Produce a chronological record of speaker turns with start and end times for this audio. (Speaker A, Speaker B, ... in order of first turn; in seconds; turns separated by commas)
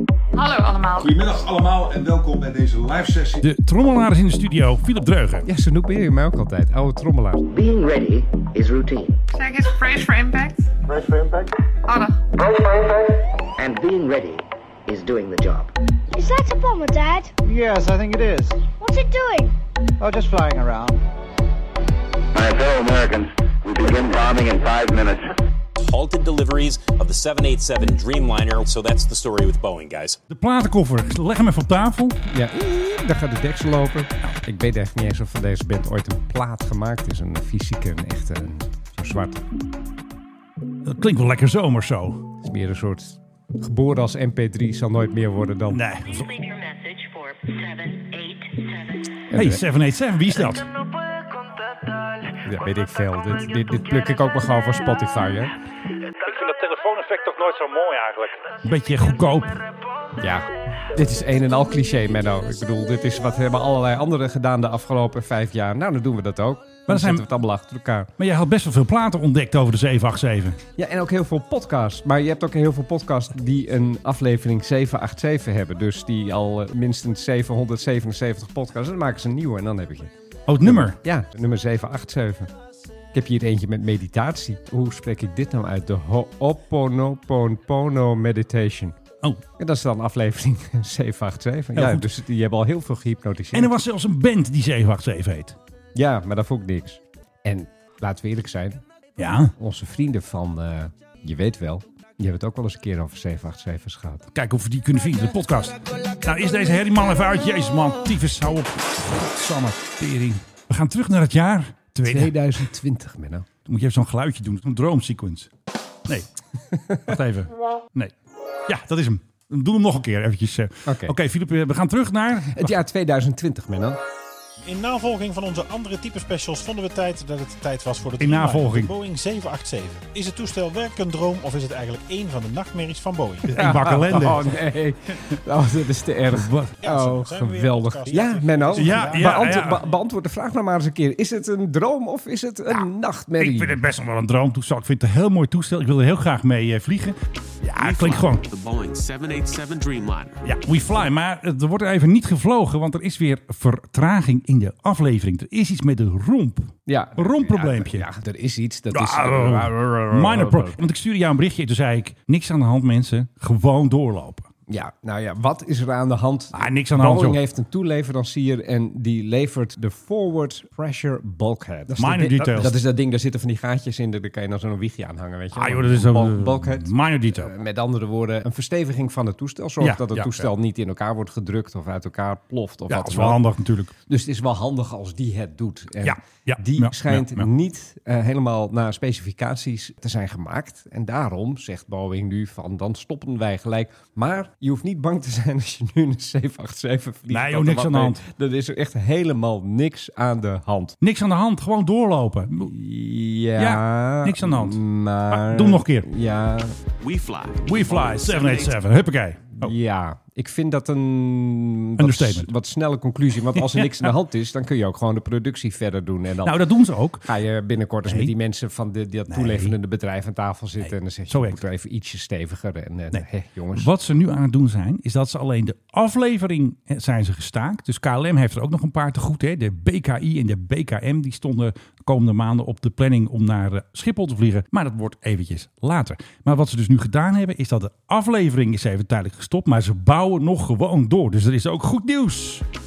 Speaker A: 0.3-1.2, Speaker B: 1.0-3.4, Speaker C: 3.4-5.5, Speaker D: 5.4-7.4, Speaker E: 7.5-9.2, Speaker A: 9.3-10.7, Speaker A: 11.9-12.2, Speaker E: 13.6-15.7, Speaker F: 16.1-17.4, Speaker G: 17.4-18.6, Speaker F: 18.8-19.5, Speaker G: 20.0-21.0, Speaker H: 22.3-25.3, Speaker I: 25.8-30.2, Speaker C: 30.3-32.2, Speaker D: 32.3-39.4, Speaker C: 40.8-42.3, Speaker D: 42.4-45.8, Speaker C: 45.7-46.2, Speaker J: 46.0-49.2, Speaker D: 49.3-49.6, Speaker C: 49.3-50.7, Speaker D: 52.4-55.5, Speaker C: 56.2-59.6, Speaker D: 60.2-68.1, Speaker C: 66.9-67.2, Speaker C: 68.2-70.6, Speaker D: 70.8-80.1, Speaker C: 80.5-81.0, Speaker D: 80.6-82.5, Speaker D: 83.1-89.0, Speaker D: 89.6-93.7, Speaker C: 91.7-92.1, Speaker C: 93.5-95.6, Speaker D: 95.9-98.8, Speaker C: 99.2-99.5, Speaker D: 99.6-104.3, Speaker C: 104.3-112.3, Speaker D: 112.0-113.5, Speaker C: 113.7-115.5, Speaker D: 116.7-117.1, Speaker C: 117.0-118.1, Speaker C: 118.7-122.7, Speaker D: 120.8-121.1, Speaker D: 122.5-124.0, Speaker K: 124.6-133.5, Speaker C: 128.2-128.9, Speaker C: 133.4-134.5, Speaker D: 133.5-143.8, Speaker C: 136.3-136.8, Speaker K: 136.8-139.6, Speaker C: 138.7-139.8, Speaker C: 143.4-148.4, Speaker L: 147.8-150.4, Speaker C: 150.4-158.1, Speaker D: 156.8-160.8, Speaker C: 158.9-164.5, Speaker D: 164.7-183.4, Speaker C: 166.5-167.4, Speaker C: 171.9-172.8, Speaker C: 175.5-177.5, Speaker C: 179.8-180.5, Speaker C: 182.9-183.9, Speaker D: 184.1-201.0, Speaker C: 186.0-187.5, Speaker C: 197.3-198.2, Speaker C: 201.0-202.7, Speaker D: 202.7-206.8, Speaker C: 203.6-206.1, Speaker L: 207.0-208.8, Speaker C: 207.6-209.7, Speaker D: 209.6-216.6, Speaker C: 212.0-212.5, Speaker C: 213.5-214.1, Speaker C: 216.4-217.3, Speaker D: 217.2-223.9, Speaker C: 218.1-218.3, Speaker C: 219.3-219.7, Speaker C: 220.8-221.6, Speaker C: 223.1-242.6